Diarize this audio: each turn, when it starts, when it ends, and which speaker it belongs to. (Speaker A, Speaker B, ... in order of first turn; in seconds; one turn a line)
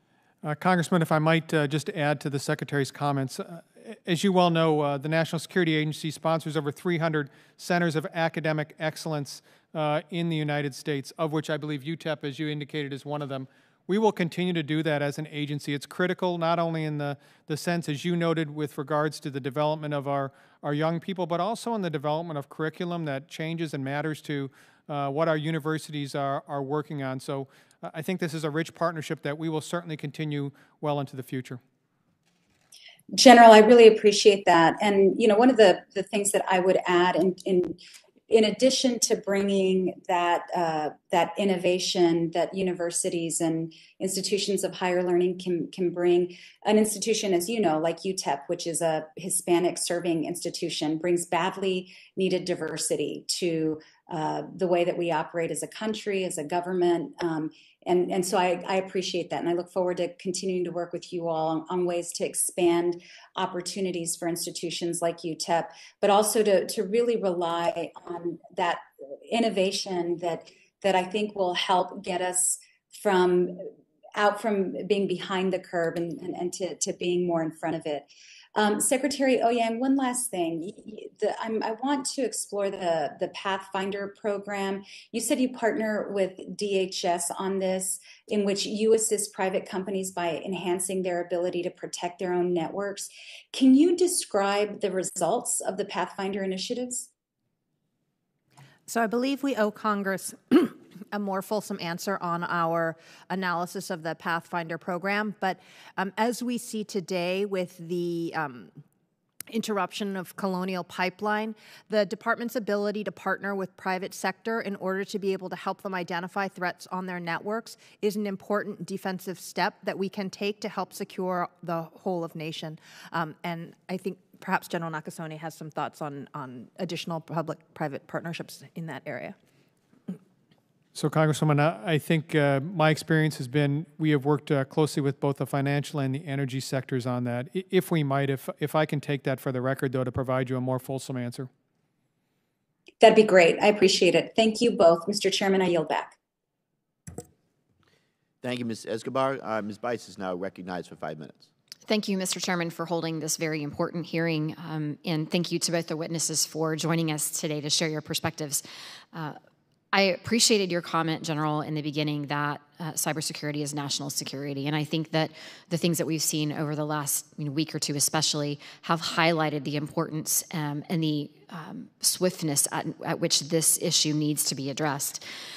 Speaker A: 0.4-31.6
Speaker B: 33.1-37.8
Speaker B: 38.3-73.6
Speaker B: 74.2-97.1
Speaker C: 98.9-108.8
Speaker C: 109.5-129.4
Speaker A: 130.9-141.5
Speaker B: 143.0-146.2
Speaker D: 148.4-151.5
Speaker E: 151.9-159.4
Speaker E: 159.9-175.2